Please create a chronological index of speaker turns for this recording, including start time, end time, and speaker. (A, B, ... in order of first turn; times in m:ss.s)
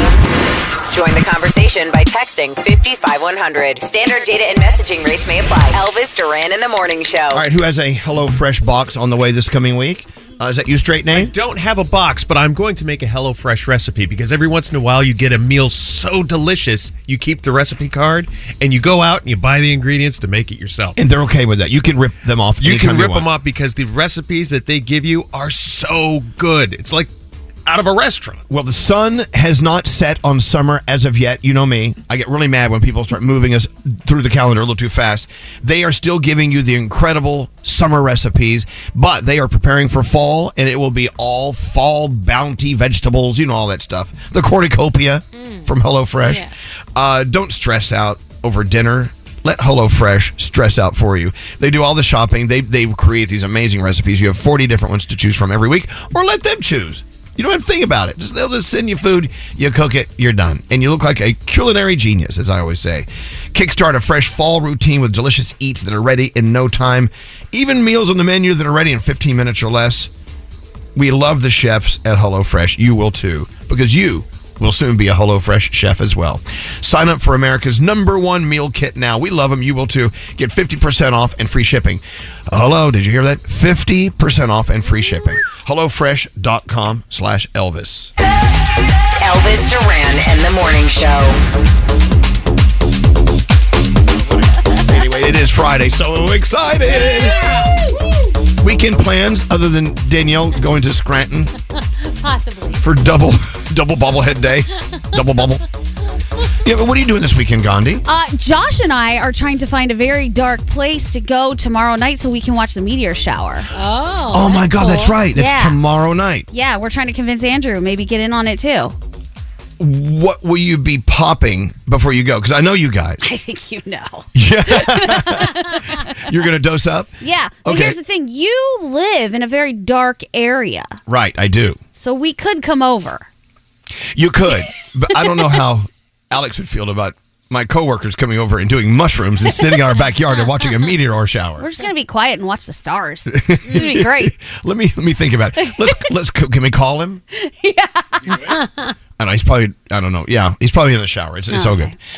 0:00.9-0:07.4 A
0:07.3-0:11.3 B
0:11.1-0:21.0 C
0:21.0-0:23.3 B
0:22.6-0:27.1 C
0:27.7-0:28.4 C
0:28.5-1:10.1 B
0:45.4-0:45.7 D
0:46.2-0:46.5 D
1:11.0-1:28.1 B
1:29.2-1:31.4 A
1:34.3-1:37.6 B
1:38.6-1:41.5 B
1:42.1-1:42.8 D
1:42.8-1:45.6 B
1:46.6-1:48.0 B
1:48.1-1:53.7 E
1:53.7-1:55.2 D
1:54.3-1:56.5 B
1:55.4-1:55.8 E
1:56.5-1:59.0 E
1:59.8-2:03.2 B
2:03.2-2:06.0 E
2:04.4-2:05.6 B
2:06.1-2:07.1 B
2:07.2-2:11.0 E
2:07.6-2:08.0 B
2:11.1-2:11.8 B
2:12.0-2:13.3 E
2:14.2-2:21.7 B
2:21.6-2:24.3 E
2:23.3-2:27.2 B
2:25.6-2:26.0 E
2:27.4-2:28.3 E
2:28.3-2:29.0 D
2:29.2-2:32.0 B
2:31.5-2:31.9 E